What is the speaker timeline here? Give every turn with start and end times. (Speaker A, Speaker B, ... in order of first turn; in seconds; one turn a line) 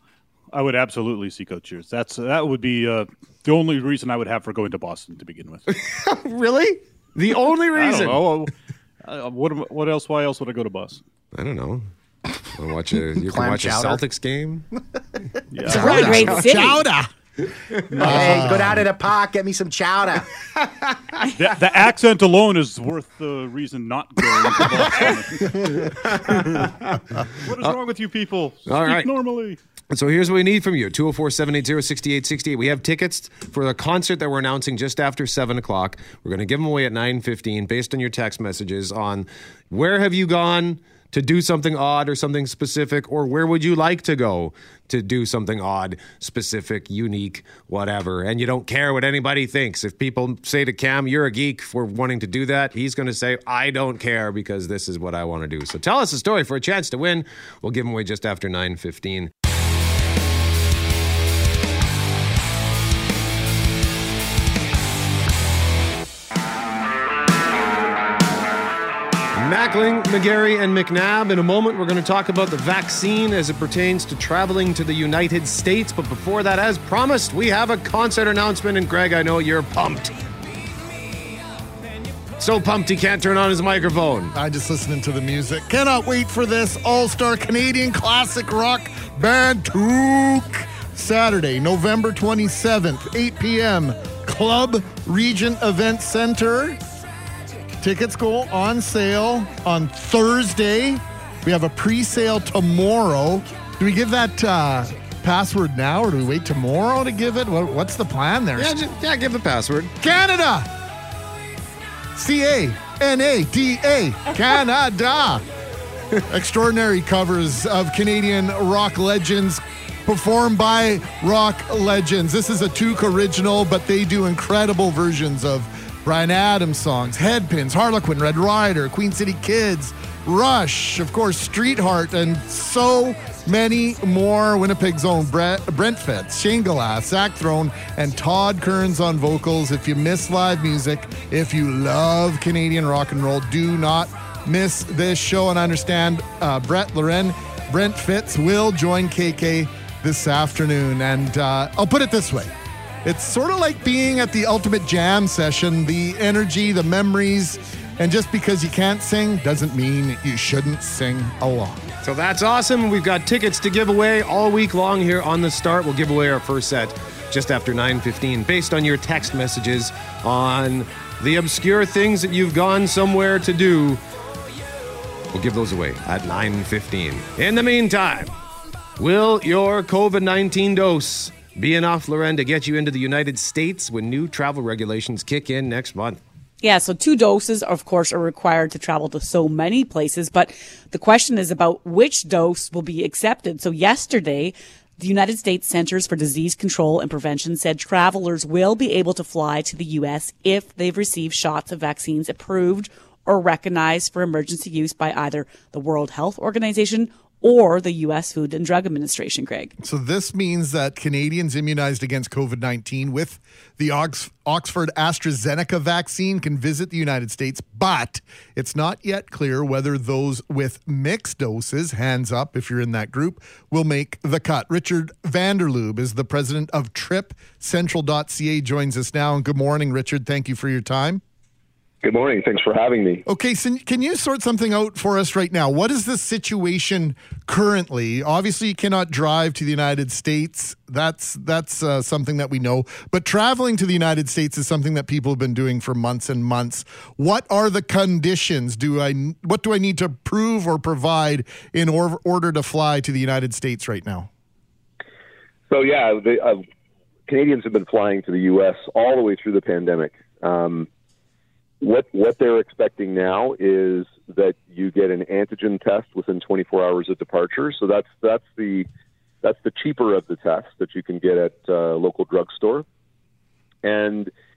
Speaker A: 0.5-5.6
Speaker B: 5.7-8.2
Speaker A: 7.7-8.5
Speaker A: 9.0-11.0
Speaker B: 11.3-11.9
Speaker B: 12.5-14.7
Speaker C: 13.2-14.0
Speaker A: 15.5-16.2
Speaker D: 15.7-16.8
Speaker E: 15.7-17.1
Speaker B: 17.7-18.4
Speaker A: 17.9-18.6
Speaker C: 18.0-20.2
Speaker E: 18.1-18.8
Speaker A: 21.3-26.6
Speaker B: 26.2-26.5
Speaker A: 27.4-29.6
Speaker B: 28.7-29.1
Speaker B: 29.9-59.3
Speaker B: 69.3-80.1
Speaker B: 82.4-84.3
Speaker E: 84.3-96.8
Speaker E: 97.8-108.7
Speaker B: 108.6-109.9
Speaker E: 110.0-110.7
Speaker E: 112.1-115.4
Speaker E: 116.3-152.5
Speaker E: 153.0-161.8
Speaker B: 162.0-174.0
Speaker B: 175.3-178.3
Speaker B: 179.0-186.2
Speaker D: 186.6-209.7
Speaker E: 209.8-231.2
Speaker F: 232.0-233.2
Speaker E: 233.2-254.3
Speaker F: 255.7-256.6
Speaker F: 257.3-260.9
Speaker F: 261.8-268.9
Speaker F: 269.4-272.8
Speaker F: 273.8-274.3